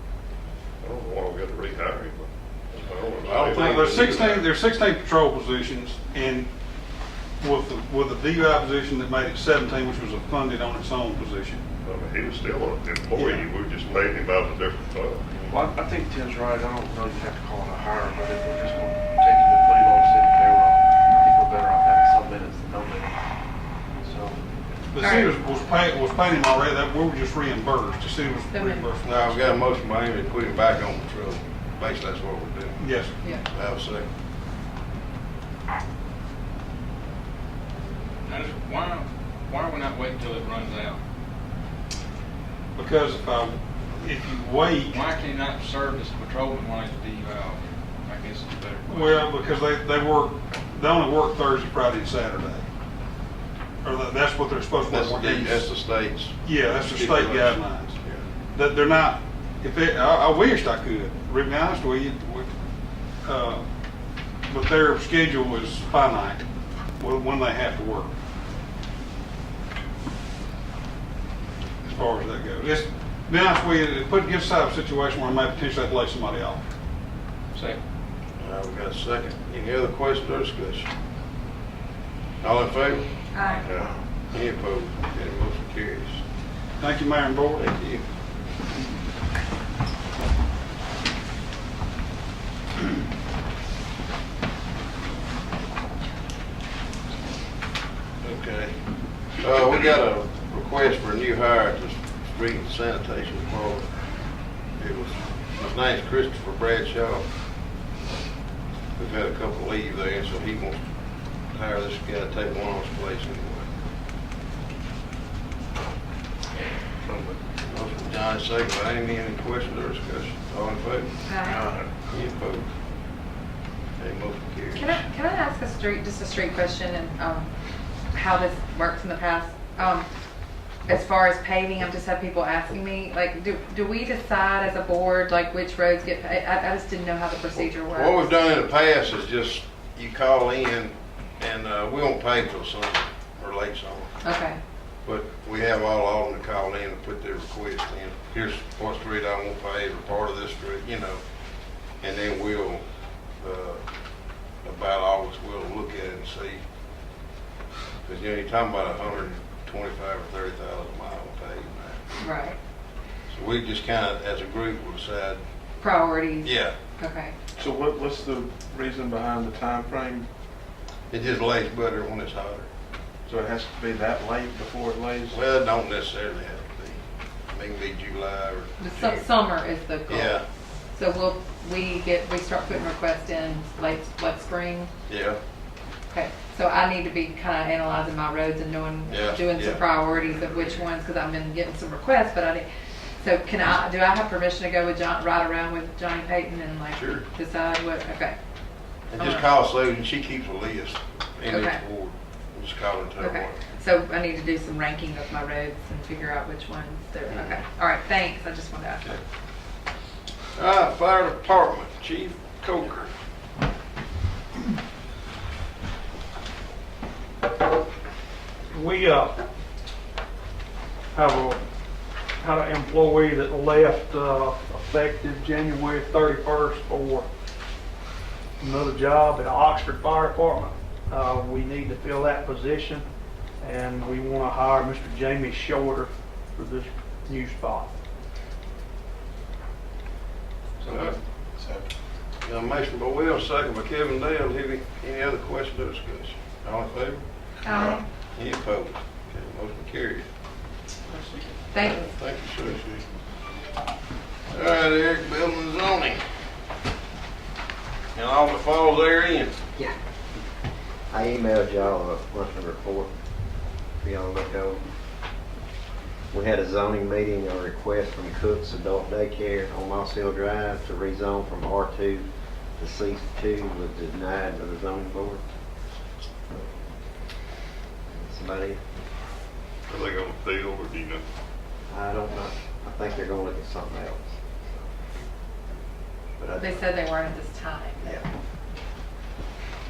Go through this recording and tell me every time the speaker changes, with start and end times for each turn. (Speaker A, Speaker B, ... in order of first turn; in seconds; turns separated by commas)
Speaker A: 0.8-3.8, Speaker B: 3.2-4.5, Speaker C: 3.3-6.5, Speaker C: 7.4-11.6, Speaker A: 11.8-15.4, Speaker C: 13.1-13.5, Speaker D: 15.5-23.1, Speaker D: 24.1-24.4, Speaker C: 24.9-29.5, Speaker E: 25.0-25.3, Speaker E: 28.5-28.9, Speaker B: 29.0-32.9, Speaker C: 32.8-33.1, Speaker B: 33.5-34.1, Speaker F: 38.2-41.0, Speaker C: 42.8-45.0, Speaker F: 44.9-49.2, Speaker C: 48.9-52.6, Speaker C: 53.8-55.7, Speaker B: 54.9-58.2, Speaker C: 56.4-58.0, Speaker C: 58.5-62.5, Speaker C: 63.2-63.6, Speaker C: 64.5-66.4, Speaker C: 67.0-68.1, Speaker C: 71.8-76.6, Speaker B: 78.4-80.9, Speaker B: 82.4-83.1, Speaker E: 83.3-83.7, Speaker B: 83.7-86.2, Speaker C: 86.8-87.7, Speaker B: 87.5-88.0, Speaker B: 98.2-98.8, Speaker B: 99.4-103.9, Speaker B: 104.8-107.3, Speaker B: 109.0-110.8, Speaker B: 111.5-113.7, Speaker D: 117.0-117.4, Speaker B: 117.7-121.1, Speaker E: 121.3-121.6, Speaker D: 121.5-121.9, Speaker B: 122.1-122.7, Speaker B: 124.0-125.0, Speaker E: 124.7-127.5, Speaker E: 128.1-130.1, Speaker E: 130.8-138.3, Speaker B: 137.5-144.1, Speaker E: 144.2-144.6, Speaker B: 145.0-151.2, Speaker B: 152.0-152.8, Speaker B: 153.4-153.8, Speaker B: 154.6-156.6, Speaker B: 158.0-162.1, Speaker E: 162.2-162.6, Speaker B: 163.3-165.4, Speaker E: 165.8-167.3, Speaker B: 166.4-166.7, Speaker D: 167.6-170.3, Speaker B: 171.1-172.7, Speaker D: 173.2-175.4, Speaker B: 175.3-179.2, Speaker E: 178.8-180.4, Speaker B: 180.1-180.4, Speaker E: 180.9-184.9, Speaker B: 185.1-185.4, Speaker E: 186.1-192.7, Speaker B: 189.1-190.8, Speaker E: 193.2-198.3, Speaker B: 196.9-197.2, Speaker B: 199.1-203.6, Speaker E: 199.2-199.4, Speaker E: 201.5-201.8, Speaker E: 203.2-209.1, Speaker B: 207.3-207.6, Speaker B: 210.6-213.1, Speaker G: 218.7-219.3, Speaker G: 221.1-221.6, Speaker G: 222.4-227.3, Speaker G: 228.6-233.0, Speaker G: 233.6-237.9, Speaker B: 240.9-241.2, Speaker D: 241.6-241.9, Speaker B: 242.4-250.2, Speaker E: 247.6-248.0, Speaker E: 251.7-252.0, Speaker B: 251.8-253.0, Speaker B: 254.5-256.2, Speaker B: 258.1-259.6, Speaker H: 261.1-263.1, Speaker H: 264.0-264.8, Speaker H: 266.3-275.4, Speaker H: 278.1-278.8, Speaker A: 279.9-281.2, Speaker H: 281.9-284.9, Speaker H: 286.4-286.8, Speaker E: 286.6-288.2